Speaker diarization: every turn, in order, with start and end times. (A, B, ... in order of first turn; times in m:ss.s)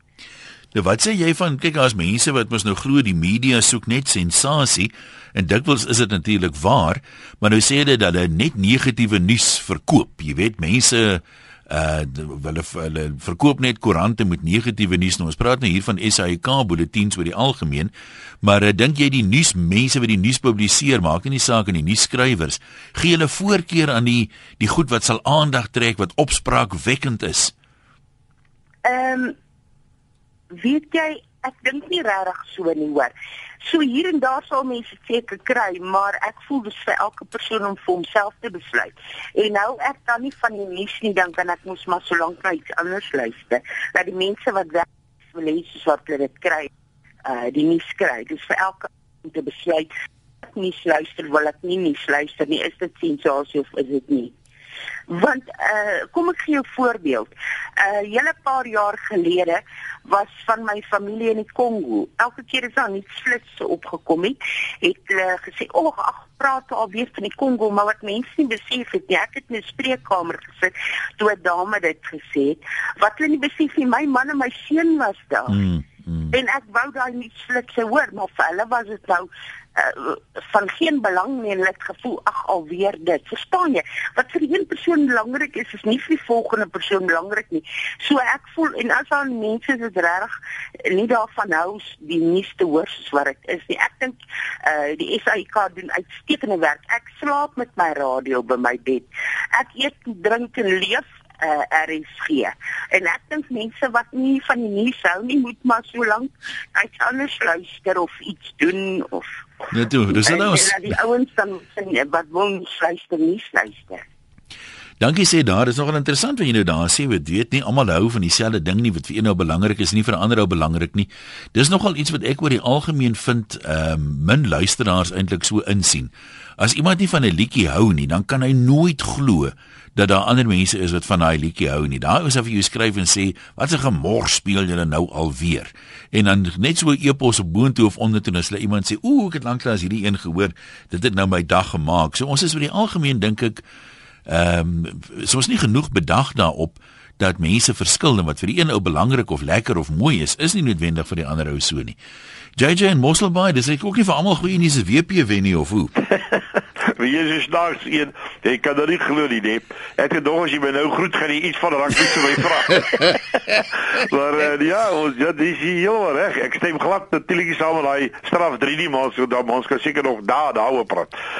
0:00.7-0:17.9 A
0:18.4-0:27.5 A
0:28.8-0:29.3 B
0:30.5-0:33.1 B
0:33.6-0:46.7 B
0:47.2-0:49.9 B
0:50.4-0:54.3 B
0:55.1-1:15.6 B
1:15.5-1:16.3 A
1:16.3-1:30.3 B
1:30.8-1:49.4 B
1:49.7-1:50.8 A
1:50.1-1:54.0 B
1:55.0-2:23.6 A
2:24.3-2:32.0 A
2:32.6-2:35.9 A
2:37.0-2:51.1 C